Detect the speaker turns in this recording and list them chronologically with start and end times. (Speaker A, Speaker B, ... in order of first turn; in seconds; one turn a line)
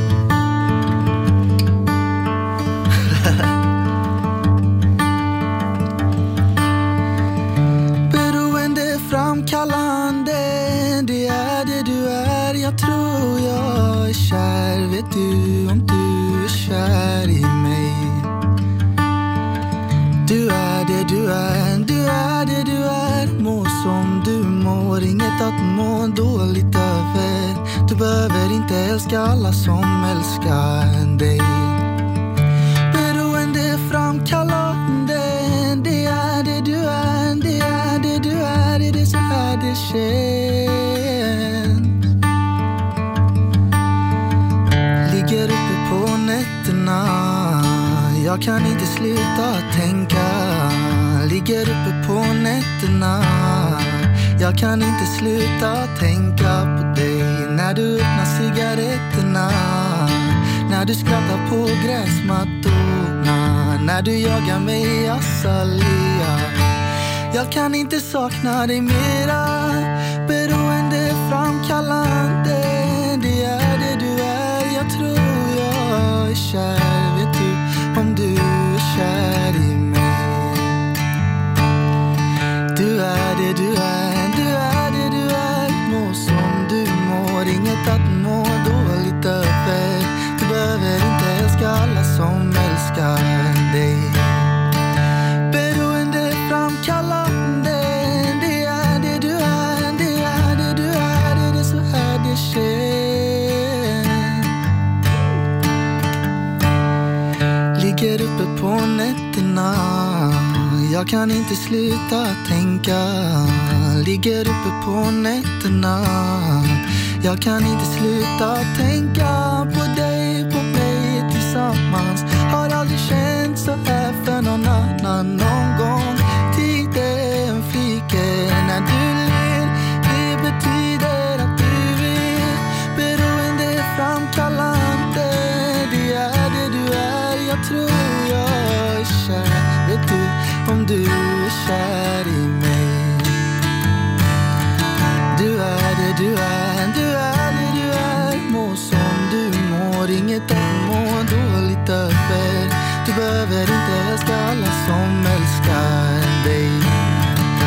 Speaker A: 8.1-18.3
Speaker A: 20.2-31.8
Speaker A: 32.9-41.9
Speaker A: 45.0-66.7
Speaker A: 67.3-80.8
Speaker A: 82.7-94.5
Speaker A: 95.5-104.5
Speaker A: 107.7-143.5
Speaker A: 145.3-157.3